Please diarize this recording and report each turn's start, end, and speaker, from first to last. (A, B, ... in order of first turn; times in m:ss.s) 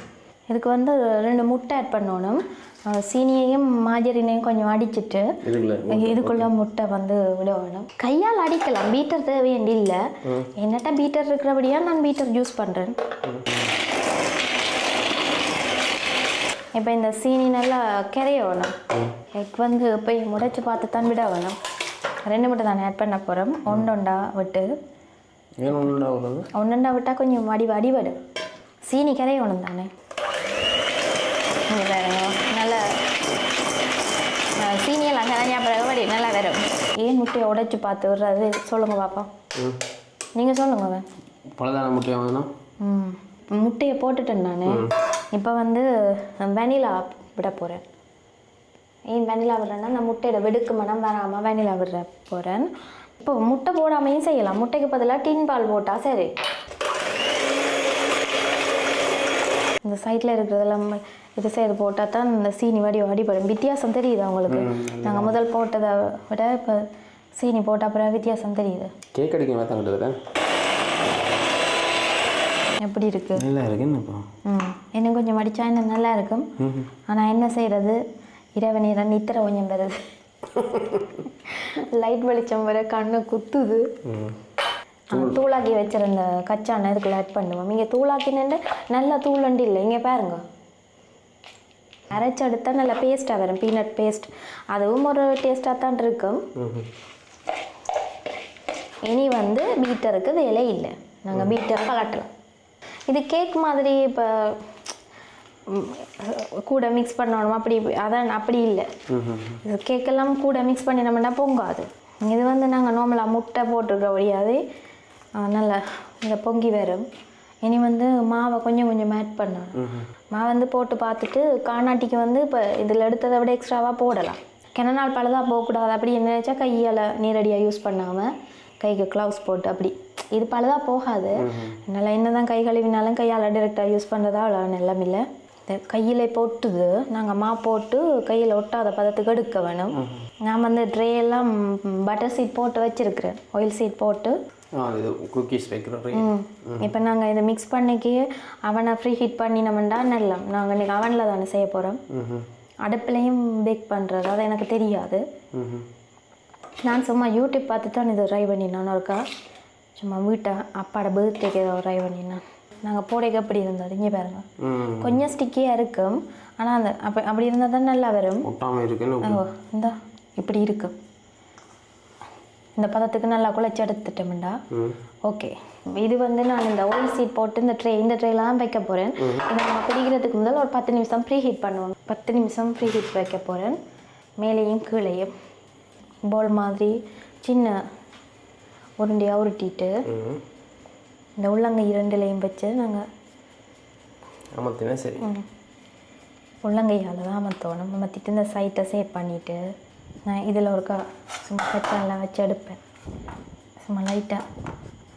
0:00.5-0:05.3 A
0:05.4-0:06.5 B
0:05.9-0:10.0 A
0:10.2-0:10.5 B
0:10.6-0:13.0 A
0:13.2-0:13.6 B
0:16.7-0:18.8 A
0:18.9-0:19.2 B
0:19.3-0:21.6 A
0:22.2-0:24.7 A
0:25.6-0:26.5 B
0:26.5-0:28.2 A
0:28.8-0:29.9 A
0:31.7-0:33.2 A
0:34.6-0:39.3 A
0:40.4-0:41.0 A
0:41.6-0:42.5 B
0:42.8-0:47.8 A
0:44.7-0:44.9 B
0:49.1-0:52.7 A
0:53.2-0:56.3 A
0:59.8-1:08.9 A
1:04.5-1:05.4 B
1:09.1-1:10.2 B
1:12.8-1:13.4 A
1:13.3-1:14.2 B
1:14.4-1:16.5 A
1:16.6-1:16.9 B
1:17.1-1:18.0 A
1:18.6-1:20.0 A
1:20.5-1:21.2 B
1:21.5-1:23.8 A
1:24.0-1:24.4 B
1:25.1-1:30.4 A
1:25.1-1:25.4 B
1:32.1-1:36.4 A
1:36.6-1:36.9 B
1:39.0-1:42.3 A
1:43.1-1:44.6 A
1:45.7-1:48.9 A
1:49.1-1:49.6 B
1:49.6-1:54.6 A
1:55.4-1:57.0 A
1:57.6-1:59.8 A
1:59.8-2:00.1 B
2:00.3-2:08.3 A
2:08.8-2:24.4 A
2:11.4-2:11.8 B
2:20.0-2:20.2 B
2:24.8-2:26.9 B
2:26.1-2:32.0 A
2:32.1-2:32.4 B
2:32.8-2:35.2 A
2:35.5-2:35.8 B
2:36.8-2:39.2 A
2:40.0-2:44.4 A
2:44.6-2:45.2 B
2:45.0-2:48.5 A
2:48.4-2:49.4 B
2:49.2-2:50.9 A
2:52.8-2:54.6 A
2:54.7-2:55.0 B
2:55.2-3:03.8 A
2:59.2-2:59.4 B
3:04.4-3:05.3 A
3:06.3-3:07.8 A
3:09.0-3:10.0 A
3:10.0-3:10.4 B
3:11.4-3:13.0 A
3:14.6-3:15.3 B
3:15.2-3:15.4 A
3:16.6-3:19.6 A
3:20.2-3:22.8 A
3:23.8-3:24.4 A